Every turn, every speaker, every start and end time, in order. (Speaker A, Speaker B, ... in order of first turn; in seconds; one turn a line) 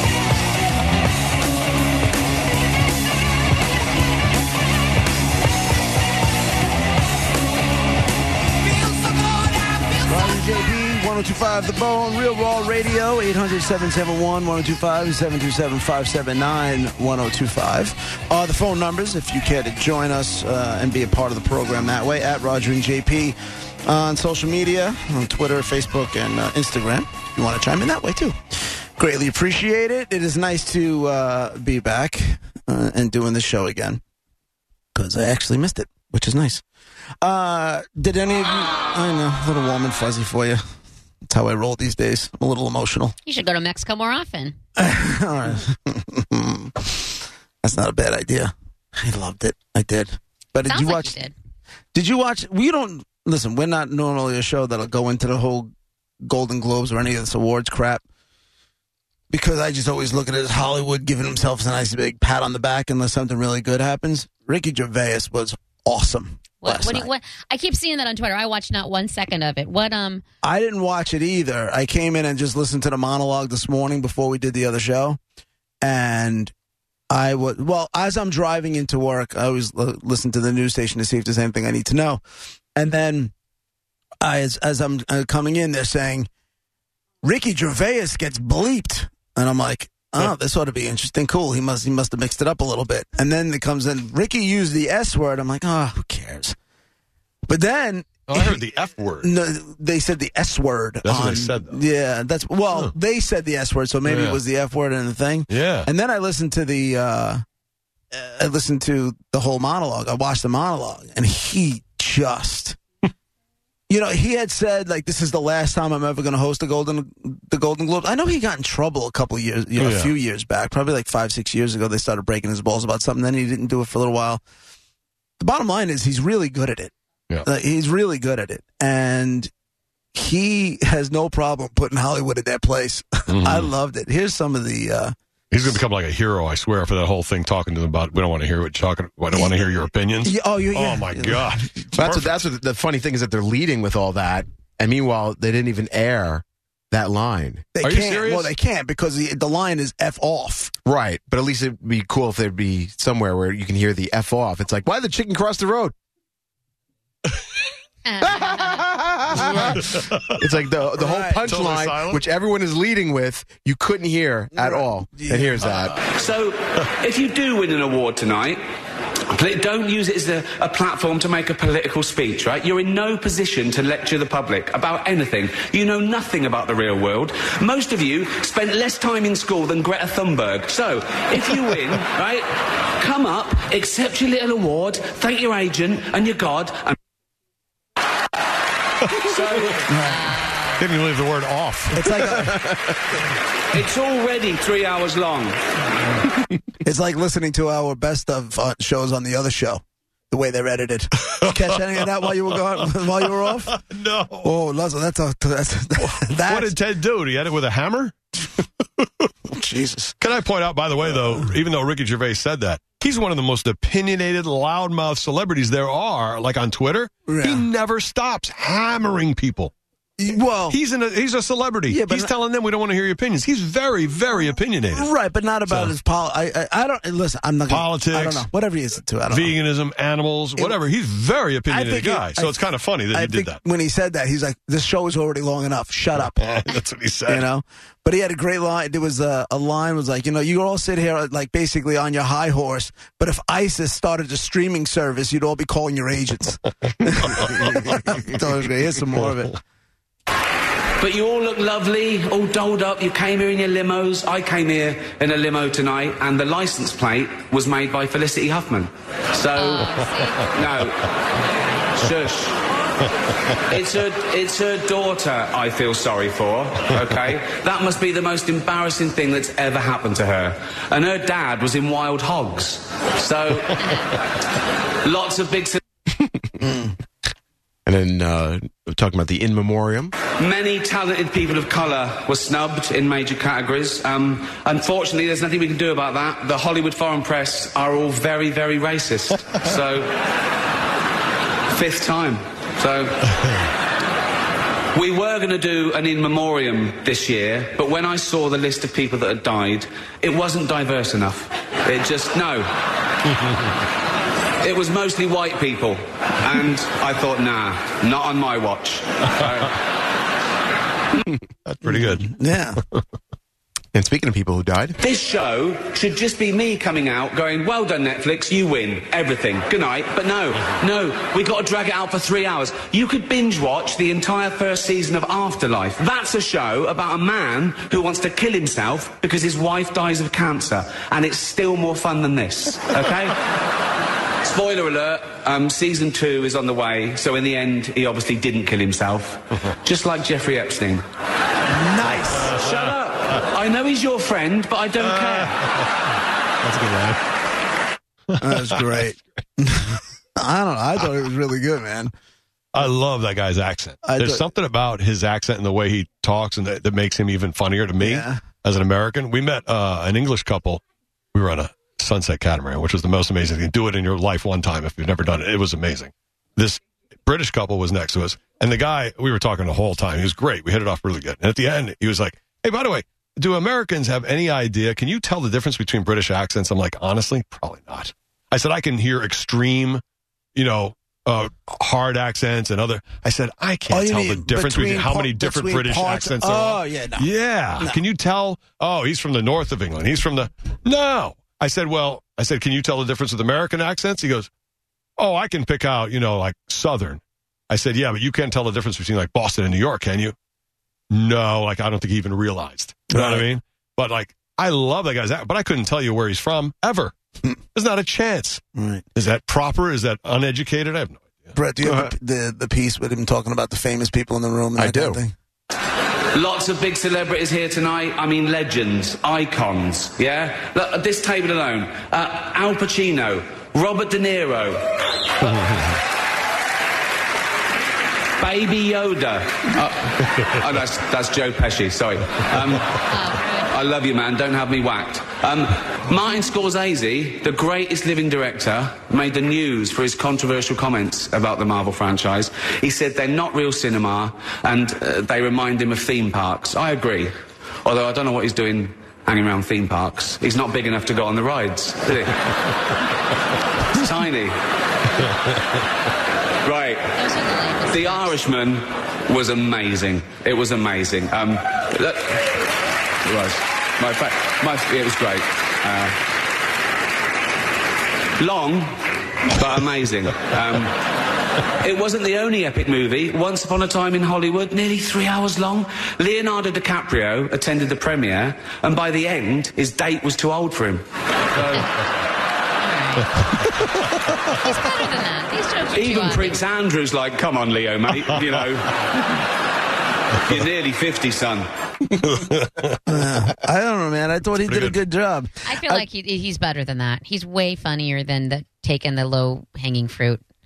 Speaker A: 9.2-9.6
Speaker B: 10.0-28.4
Speaker B: 29.0-34.0
Speaker B: 34.9-36.6
Speaker B: 37.2-40.6
Speaker B: 41.2-43.1
Speaker A: 43.2-44.5
Speaker B: 44.8-51.2
Speaker A: 50.6-51.3
Speaker B: 51.9-55.7
Speaker B: 56.2-58.0
Speaker B: 59.3-67.1
Speaker A: 66.6-70.2
Speaker B: 70.4-75.2
Speaker B: 75.8-76.5
Speaker B: 77.1-82.2
Speaker B: 82.8-83.3
Speaker B: 84.2-86.3
Speaker B: 87.2-96.5
Speaker B: 97.5-107.4
Speaker C: 98.3-99.3
Speaker C: 101.0-101.8
Speaker C: 104.0-104.4
Speaker C: 105.5-105.9
Speaker B: 108.1-112.8
Speaker B: 113.9-124.4
Speaker C: 119.8-120.1
Speaker B: 125.4-126.9
Speaker B: 127.4-129.5
Speaker B: 130.1-135.8
Speaker C: 133.3-133.7
Speaker C: 135.5-142.4
Speaker B: 139.3-139.6
Speaker B: 140.2-142.0
Speaker D: 141.9-147.7
Speaker B: 147.8-150.7
Speaker C: 147.8-148.5
Speaker D: 150.8-155.9
Speaker A: 158.0-158.9
Speaker D: 158.2-166.0
Speaker C: 159.5-160.5
Speaker B: 161.0-161.5
Speaker C: 161.4-162.2
Speaker B: 164.5-165.8
Speaker E: 166.1-168.6
Speaker E: 169.3-182.4
Speaker E: 183.0-186.9
Speaker C: 189.1-189.3
Speaker E: 189.3-189.8
Speaker B: 189.9-190.3
Speaker A: 190.0-190.8
Speaker C: 190.8-192.0
Speaker B: 191.9-192.6
Speaker D: 192.4-192.7
Speaker E: 193.7-195.6
Speaker B: 196.8-203.7
Speaker C: 203.6-204.5
Speaker B: 204.4-206.7
Speaker C: 206.0-209.3
Speaker B: 209.5-210.1
Speaker C: 210.2-219.7
Speaker B: 217.2-217.7
Speaker B: 220.2-220.8
Speaker C: 220.7-225.1
Speaker B: 221.9-222.3
Speaker B: 224.9-229.5
Speaker C: 225.7-225.9
Speaker C: 227.7-228.5
Speaker C: 229.2-233.6
Speaker B: 231.7-232.6
Speaker B: 233.1-236.4
Speaker C: 236.2-237.5
Speaker B: 237.3-249.6
Speaker C: 247.3-248.1
Speaker E: 251.0-259.9
Speaker A: 259.5-260.5
Speaker E: 260.5-261.0
Speaker E: 262.0-262.6
Speaker C: 263.1-263.6
Speaker E: 263.7-274.1
Speaker E: 275.0-275.8
Speaker B: 276.6-276.9
Speaker D: 277.9-280.1
Speaker E: 280.4-290.1
Speaker E: 291.7-293.3
Speaker E: 294.9-302.7
Speaker C: 303.4-303.7
Speaker E: 304.6-309.8
Speaker C: 311.6-312.3
Speaker B: 311.9-312.8
Speaker D: 313.9-314.9
Speaker E: 315.0-333.4
Speaker E: 334.4-341.0
Speaker B: 341.7-342.5
Speaker C: 342.4-342.7
Speaker E: 342.6-345.6
Speaker C: 345.0-345.9
Speaker C: 346.6-347.2
Speaker C: 348.3-348.8
Speaker B: 348.4-352.1
Speaker C: 352.7-360.8
Speaker B: 354.0-354.5
Speaker B: 358.0-358.4
Speaker C: 361.3-380.0
Speaker C: 380.5-394.5
Speaker B: 383.9-388.0
Speaker C: 395.2-400.3
Speaker C: 401.1-407.1
Speaker B: 403.1-403.4
Speaker C: 407.7-408.6
Speaker B: 408.7-409.0
Speaker C: 409.1-412.1
Speaker B: 411.6-415.3
Speaker D: 414.8-415.2
Speaker E: 416.3-424.8
Speaker C: 425.6-425.9
Speaker E: 428.4-433.0
Speaker A: 433.1-433.7
Speaker E: 433.7-447.3
Speaker E: 447.8-452.4
Speaker E: 453.9-454.5
Speaker E: 456.6-457.1
Speaker A: 457.1-458.4
Speaker E: 457.9-462.5
Speaker E: 463.2-466.1
Speaker E: 468.4-468.9
Speaker E: 469.5-470.9
Speaker E: 471.8-481.8
Speaker A: 482.8-483.5
Speaker A: 484.6-486.6
Speaker E: 485.9-489.4
Speaker E: 490.4-491.6
Speaker C: 492.2-493.0
Speaker B: 493.1-496.1
Speaker C: 494.6-495.0
Speaker A: 495.6-500.4